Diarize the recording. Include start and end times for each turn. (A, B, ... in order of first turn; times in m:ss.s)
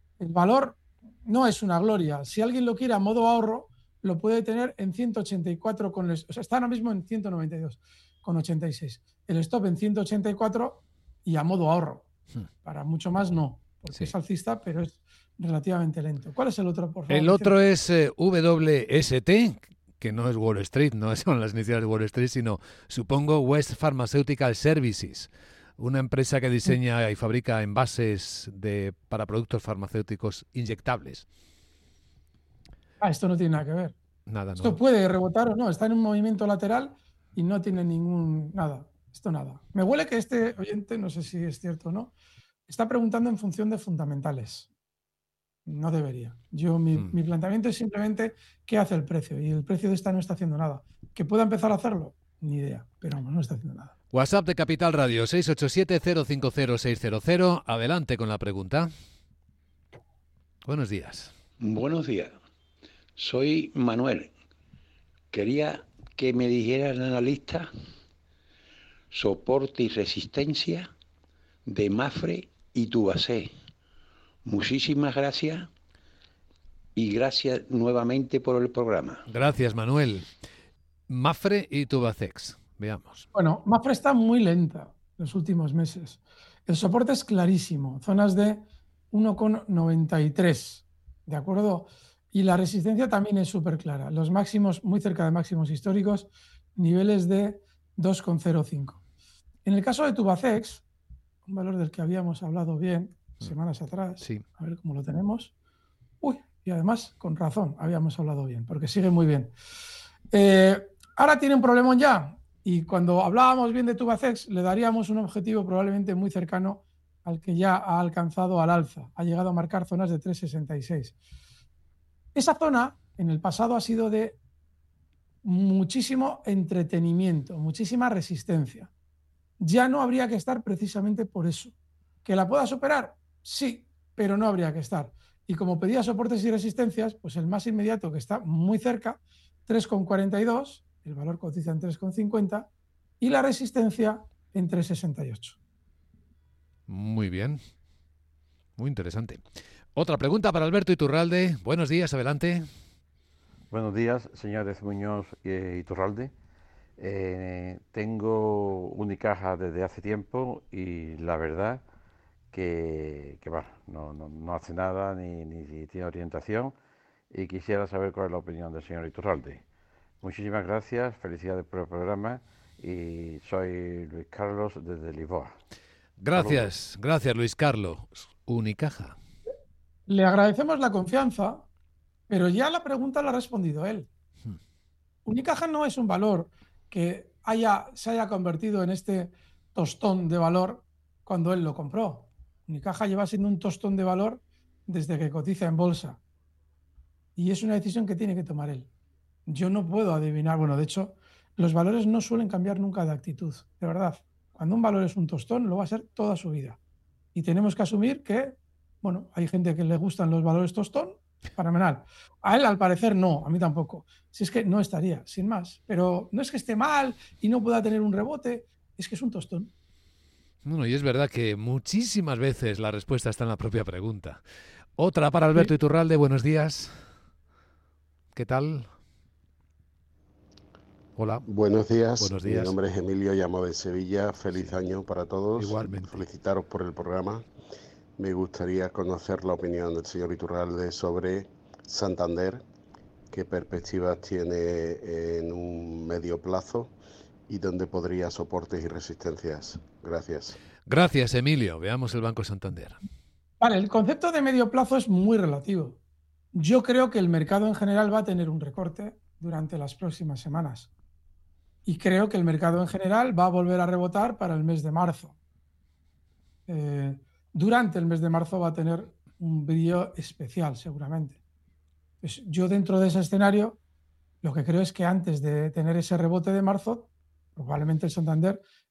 0:00.2-0:12.1 A
0:12.6-0:17.5 A
0:17.1-0:31.3 B
0:33.0-0:33.9 A
0:34.3-0:34.8 B
0:34.6-0:42.1 A
0:42.7-0:44.7 A
0:45.7-0:53.9 A
0:54.1-0:58.9 B
1:00.6-1:01.3 B
1:01.6-1:02.4 C
1:03.2-1:04.3 C
1:05.3-1:07.7 C
1:09.1-1:10.9 C
1:11.7-1:13.5 C
1:14.4-1:15.7 C
1:17.0-1:19.2 C
1:19.3-1:20.3 B
1:21.1-1:23.3 B
1:23.3-1:39.0 A
1:39.6-1:40.8 A
1:41.5-1:45.5 A
1:46.2-1:49.5 A
1:50.3-2:01.2 A
2:02.4-2:04.4 A
2:05.4-2:08.9 A
2:09.6-2:22.7 A
2:23.2-2:25.6 A
2:26.9-2:27.6 B
2:28.8-2:29.4 B
2:30.0-2:32.7 B
2:33.7-2:36.3 D
2:37.0-2:41.8 D
2:42.5-2:46.7 D
2:47.3-2:49.6 D
2:50.2-2:55.5 D
2:56.2-2:59.2 B
2:56.4-2:56.7 D
3:00.1-3:01.6 A
3:02.3-3:04.1 A
3:05.3-3:16.2 A
3:17.4-3:18.9 A
3:19.5-3:26.8 A
3:27.4-3:39.7 A
3:40.6-3:44.4 B
3:45.0-3:47.0 B
3:48.4-3:48.9 B
3:51.2-3:51.4 B
3:51.4-3:57.4 E
3:52.2-3:52.7 B
3:55.6-3:56.2 B
3:58.2-4:02.6 E
4:03.3-4:06.9 E
4:07.5-4:10.6 E
4:10.9-4:13.0 B
4:13.6-4:16.0 A
4:16.5-4:20.9 A
4:21.9-4:25.3 A
4:26.7-4:31.4 A
4:32.2-4:33.8 A
4:34.4-4:38.6 A